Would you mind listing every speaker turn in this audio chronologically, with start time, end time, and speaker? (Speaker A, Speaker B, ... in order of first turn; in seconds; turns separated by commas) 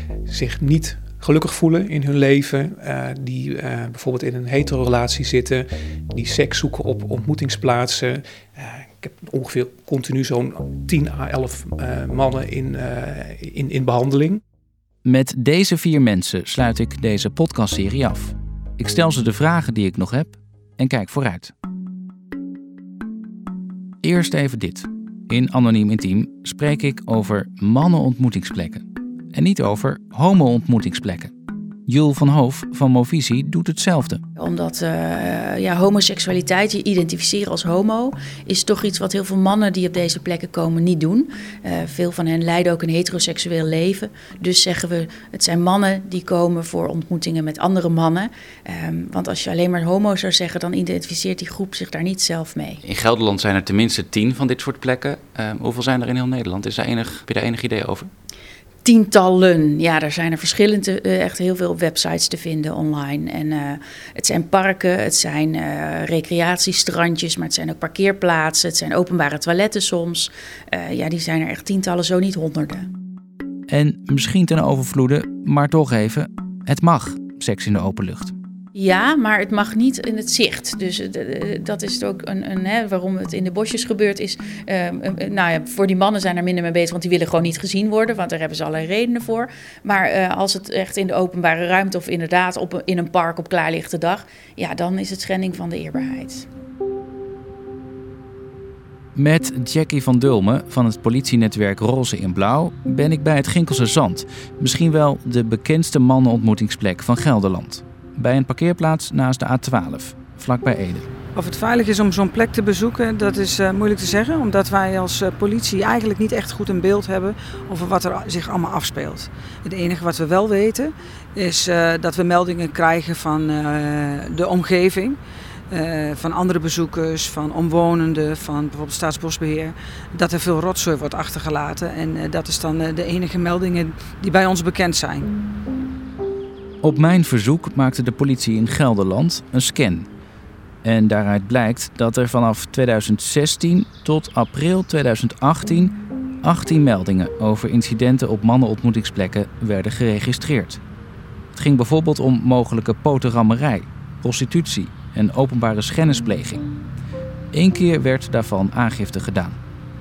Speaker A: 0.2-14.4, Speaker B: 15.0-21.5, Speaker B: 24.0-31.3, Speaker B: 31.9-34.2, Speaker C: 34.4-52.8, Speaker B: 52.8-58.1, Speaker C: 58.8-72.9, Speaker B: 73.7-78.3, Speaker C: 78.7-96.5, Speaker B: 99.2-111.1, Speaker D: 111.3-125.2, Speaker D: 125.7-135.3, Speaker B: 136.8-140.1, Speaker B: 140.8-150.8, Speaker B: 151.5-156.6, Speaker B: 157.5-159.6